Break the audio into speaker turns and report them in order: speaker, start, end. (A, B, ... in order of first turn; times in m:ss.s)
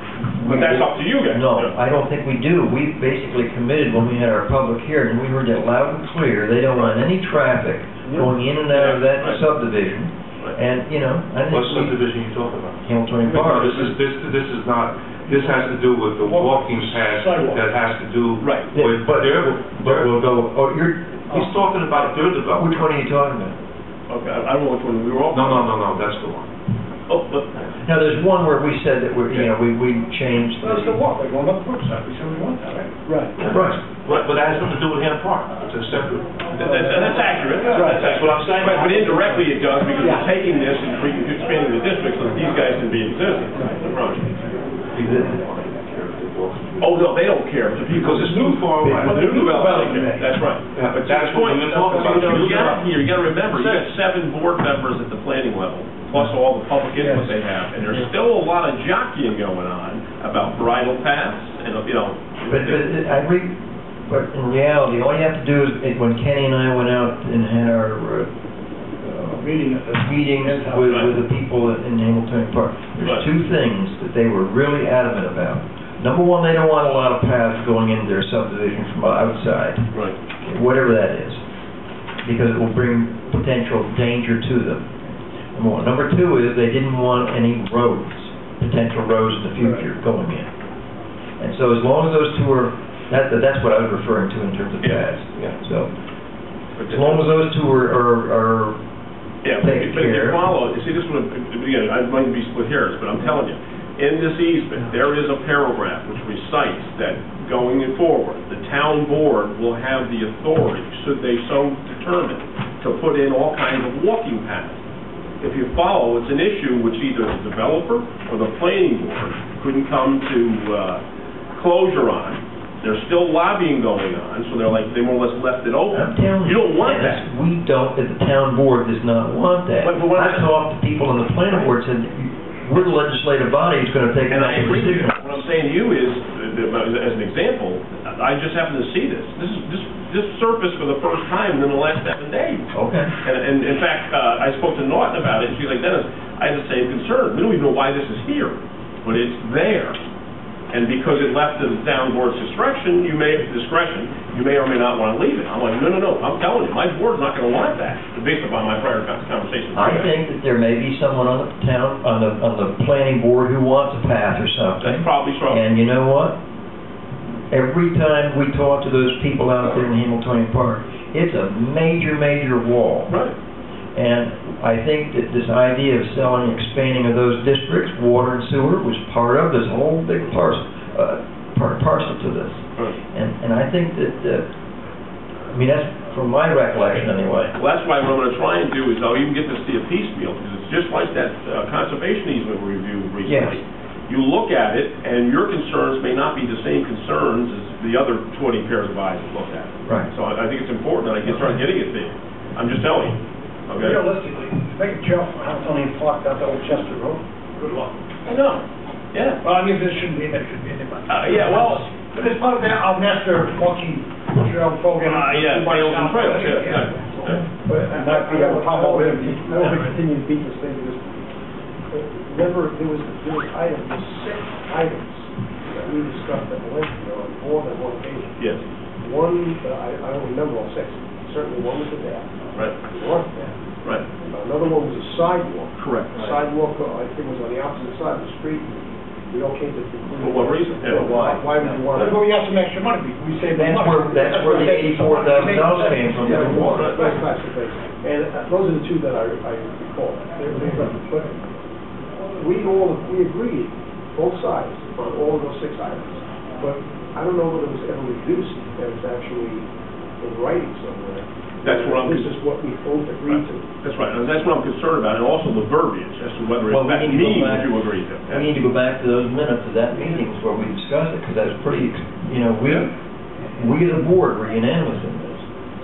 0:00.3-0:12.0 A
0:00.4-0:01.7 B
0:08.7-0:09.4 B
0:11.5-0:20.3 C
0:12.8-0:14.0 A
0:15.3-0:15.7 D
0:16.2-0:17.8 D
0:18.4-0:18.7 B
0:18.7-0:21.5 A
0:21.3-0:22.8 C
0:22.5-0:23.6 A
0:24.1-0:25.7 B
0:25.3-0:26.5 C
0:27.1-0:27.6 B
0:27.8-0:31.0 A
0:30.6-0:33.2 D
0:33.1-0:33.3 E
0:33.4-0:36.3 C
0:33.4-0:33.8 A
0:36.6-0:44.3 B
0:36.6-0:36.9 E
0:37.6-0:38.1 D
0:37.7-0:39.4 C
0:44.9-0:47.0 C
0:45.0-0:45.4 A
0:46.8-1:02.9 B
0:47.9-0:49.6 C
0:48.8-0:49.1 A
0:48.9-0:50.3 D
0:50.7-0:53.9 C
0:51.6-0:52.2 D
0:57.0-0:57.3 D
1:02.5-1:08.3 A
1:09.0-1:19.9 A
1:09.3-1:11.1 D
1:10.9-1:11.1 B
1:20.4-1:21.4 A
1:22.2-1:24.9 A
1:25.6-1:30.5 A
1:31.4-1:35.9 A
1:34.8-1:35.6 B
1:36.8-1:37.3 B
1:36.9-1:38.8 A
1:39.4-1:54.8 B
1:39.6-1:40.4 A
1:55.4-2:01.0 B
2:01.6-2:07.3 B
2:05.9-2:15.4 A
2:09.8-2:10.5 B
2:14.3-2:22.7 B
2:22.7-2:23.1 A
2:23.2-2:30.0 B
2:30.7-2:40.1 B
2:39.7-2:46.4 A
2:44.8-2:45.6 B
2:47.5-2:53.2 A
2:53.1-2:53.3 B
2:54.0-3:04.5 A
3:05.5-3:07.5 A
3:07.6-3:24.1 B
3:13.3-3:13.6 A
3:21.3-3:21.6 A
3:23.8-3:27.9 D
3:28.2-3:29.4 B
3:29.4-3:40.0 D
3:31.1-3:31.9 B
3:35.0-3:37.4 B
3:37.6-3:41.2 E
3:41.9-3:48.4 E
3:48.4-3:48.6 B
3:49.0-3:53.5 E
3:54.2-3:58.8 E
3:55.8-3:56.4 B
3:59.3-4:02.2 E
4:00.1-4:02.1 B
4:01.7-4:06.8 D
4:03.6-4:07.1 A
4:06.2-4:11.4 E
4:06.4-4:07.2 B
4:12.4-4:19.7 E
4:20.2-4:23.7 E
4:21.6-4:22.4 B
4:23.3-4:28.5 B
4:26.7-4:32.9 A
4:32.6-4:32.9 B
4:33.5-4:35.5 A